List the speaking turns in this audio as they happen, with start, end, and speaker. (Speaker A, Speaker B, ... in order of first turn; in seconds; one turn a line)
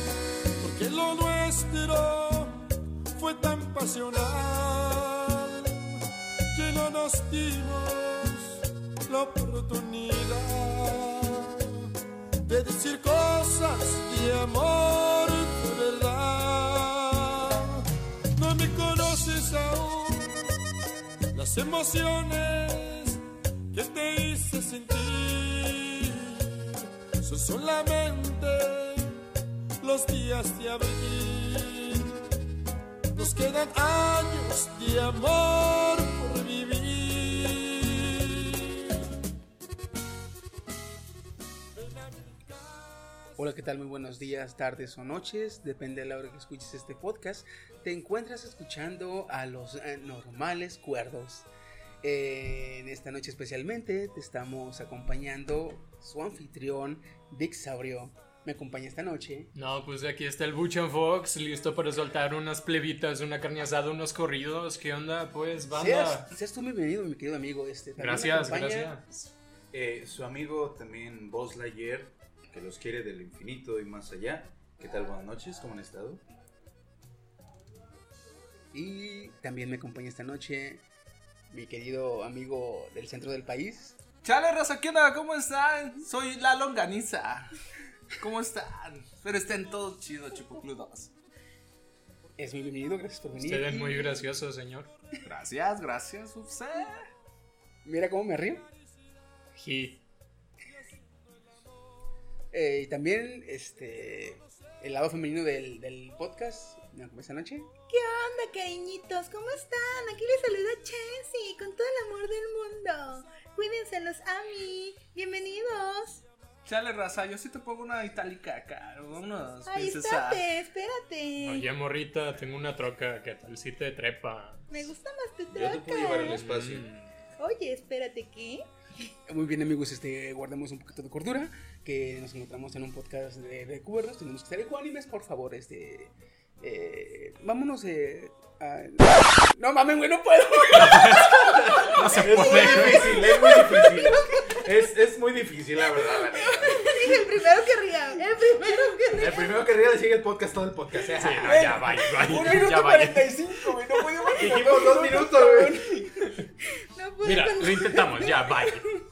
Speaker A: 0.6-6.0
Speaker A: 6.5-11.9
Speaker A: 12.4-20.5
Speaker A: 21.3-29.2
Speaker A: 29.8-32.2
Speaker A: 33.1-39.0
Speaker A: 41.9-42.4
Speaker B: 43.4-51.5
Speaker B: 52.0-59.5
Speaker C: 59.5-66.3
Speaker B: 65.7-68.9
Speaker C: 68.0-69.3
Speaker D: 69.7-76.2
Speaker B: 78.7-80.8
Speaker B: 81.5-84.0
Speaker E: 84.2-87.5
Speaker E: 88.2-91.1
Speaker B: 92.4-94.2
Speaker C: 93.3-94.9
Speaker E: 95.2-97.1
Speaker B: 97.8-98.7
Speaker C: 99.5-100.0
Speaker B: 102.5-107.7
Speaker F: 107.9-116.2
Speaker E: 116.6-120.4
Speaker F: 119.7-121.7
Speaker C: 121.4-124.7
Speaker F: 124.7-126.4
Speaker D: 125.5-126.9
Speaker E: 126.3-127.1
Speaker F: 127.4-128.7
Speaker B: 129.3-144.2
Speaker D: 140.8-146.9
Speaker C: 141.9-143.3
Speaker F: 146.4-149.6
Speaker D: 149.1-151.9
Speaker C: 151.1-153.4
Speaker B: 151.4-156.3
Speaker D: 154.3-155.9
Speaker C: 154.4-154.8
Speaker F: 156.9-158.5
Speaker C: 157.2-158.9